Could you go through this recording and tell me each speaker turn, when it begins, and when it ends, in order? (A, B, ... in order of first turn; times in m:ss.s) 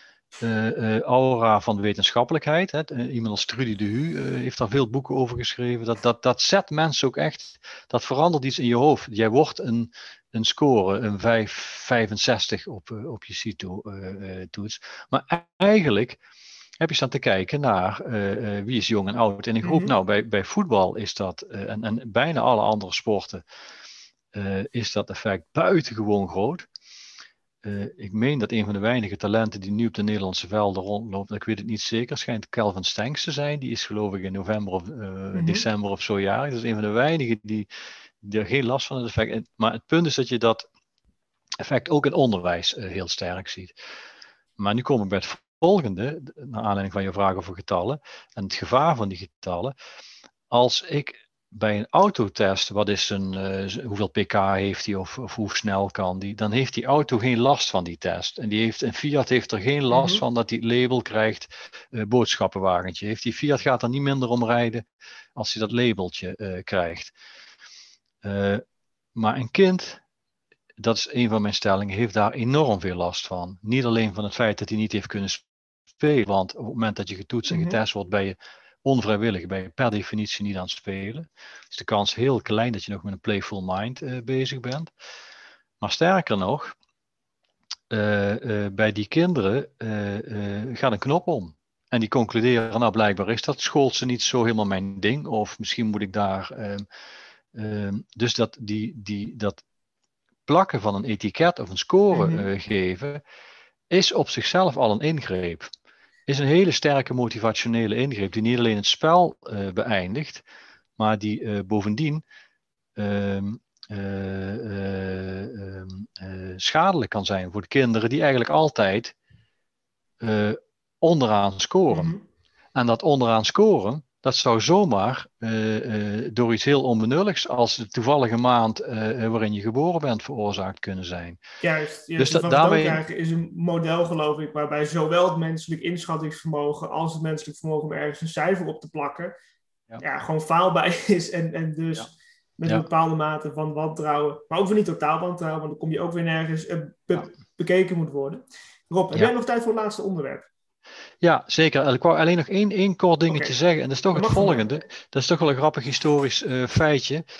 0:00.4-0:16.2 A
0:16.8-0:23.4 A
0:19.6-0:19.9 B
0:24.3-0:26.7 A
0:27.6-0:37.7 A
0:35.3-0:35.6 B
0:38.2-0:40.7 A
0:41.6-0:43.7 A
0:44.6-0:49.7 A
0:50.5-1:07.1 A
0:59.9-1:00.2 B
1:08.2-1:08.6 A
1:09.1-1:10.0 A
1:10.8-1:24.9 A
1:17.5-1:17.8 B
1:25.8-1:26.7 A
1:27.9-1:36.8 A
1:37.5-1:39.6 A
1:40.4-1:43.2 A
1:42.1-1:42.5 B
1:43.9-1:45.7 A
1:46.3-1:50.4 A
1:51.0-1:52.2 A
1:53.0-1:59.1 A
2:00.2-2:02.1 A
2:01.9-2:02.2 B
2:02.7-2:11.4 A
2:11.6-2:19.3 B
2:12.2-2:13.0 A
2:20.0-2:30.5 B
2:31.2-2:37.2 A
2:33.3-2:33.5 B
2:34.1-2:34.6 B